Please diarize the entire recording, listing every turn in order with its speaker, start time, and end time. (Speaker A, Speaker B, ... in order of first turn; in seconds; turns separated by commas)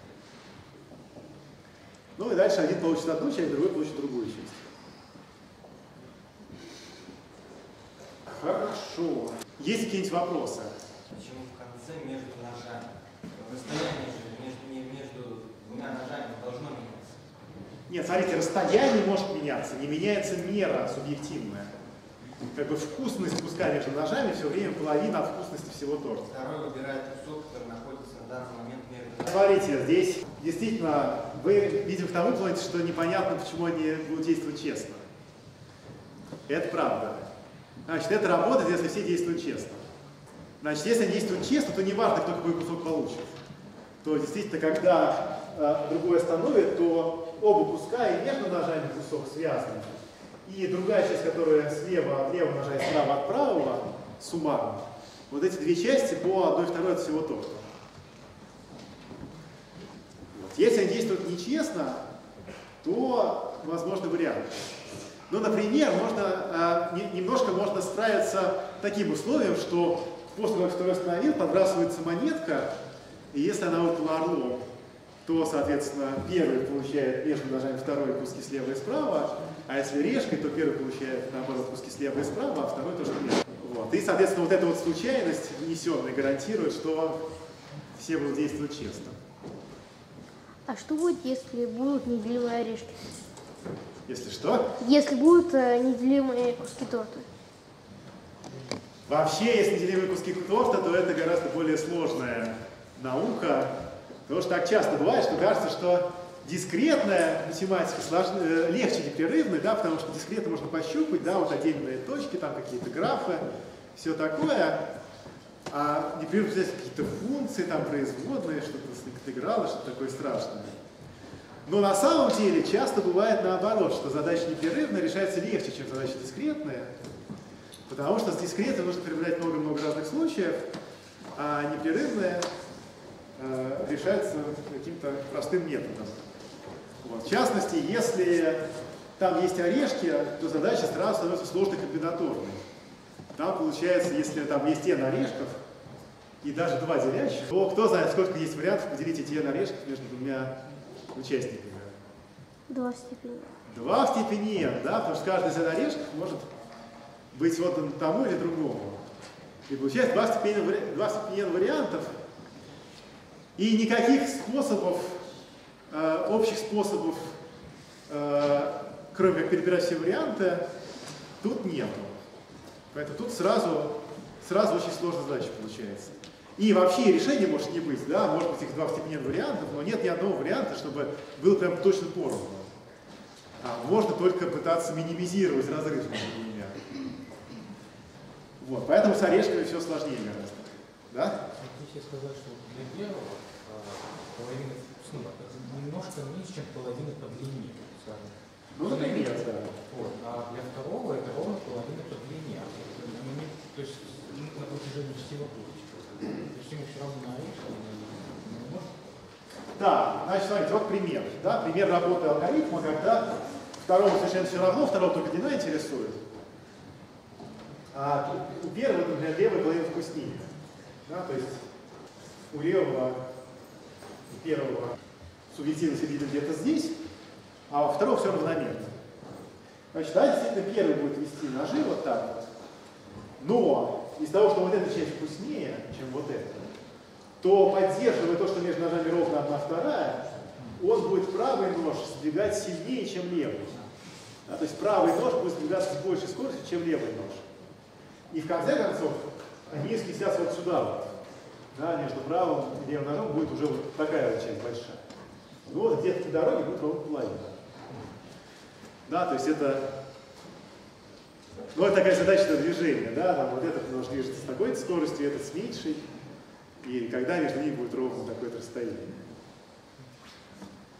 Speaker A: 2.2-4.6, Speaker A: 8.2-10.7, Speaker B: 11.1-17.1, Speaker A: 17.9-21.7, Speaker A: 22.5-26.3, Speaker B: 26.3-29.4, Speaker A: 29.3-35.0, Speaker A: 36.5-37.2, Speaker A: 37.9-39.8, Speaker A: 40.6-43.3, Speaker A: 44.0-49.9, Speaker A: 50.4-57.6, Speaker A: 60.3-62.0, Speaker A: 62.8-64.5, Speaker A: 65.3-72.7, Speaker A: 73.3-74.6, Speaker A: 75.2-87.2, Speaker A: 87.9-89.2, Speaker C: 90.7-93.0, Speaker A: 94.0-94.7, Speaker C: 94.8-97.3, Speaker A: 99.0-103.7, Speaker A: 104.3-113.4, Speaker A: 114.0-114.8, Speaker A: 115.7-120.7, Speaker A: 121.7-126.9, Speaker A: 127.9-130.7, Speaker A: 131.3-132.5, Speaker A: 133.4-136.2, Speaker A: 137.0-138.6, Speaker A: 139.2-142.6, Speaker A: 143.3-145.6, Speaker A: 146.4-150.5, Speaker A: 151.1-151.9, Speaker C: 152.7-153.5, Speaker A: 153.7-156.5, Speaker A: 157.3-159.0, Speaker A: 159.7-162.2, Speaker A: 163.6-165.2, Speaker A: 165.9-167.3, Speaker A: 168.1-170.6, Speaker A: 171.4-172.1, Speaker A: 172.9-182.7, Speaker A: 183.6-186.8, Speaker A: 188.6-191.4, Speaker D: 191.6-208.9, Speaker A: 198.7-199.8, Speaker A: 209.8-216.2, Speaker A: 217.9-220.5, Speaker A: 221.1-221.6, Speaker A: 222.5-223.2, Speaker A: 224.3-225.0, Speaker A: 225.5-227.0, Speaker A: 227.7-228.9, Speaker A: 229.9-232.5, Speaker A: 233.4-236.7, Speaker A: 237.4-243.8, Speaker A: 244.4-247.4, Speaker A: 248.3-251.1, Speaker A: 251.7-255.0, Speaker A: 255.7-257.6, Speaker A: 259.1-259.9, Speaker A: 261.7-266.0, Speaker A: 266.8-269.1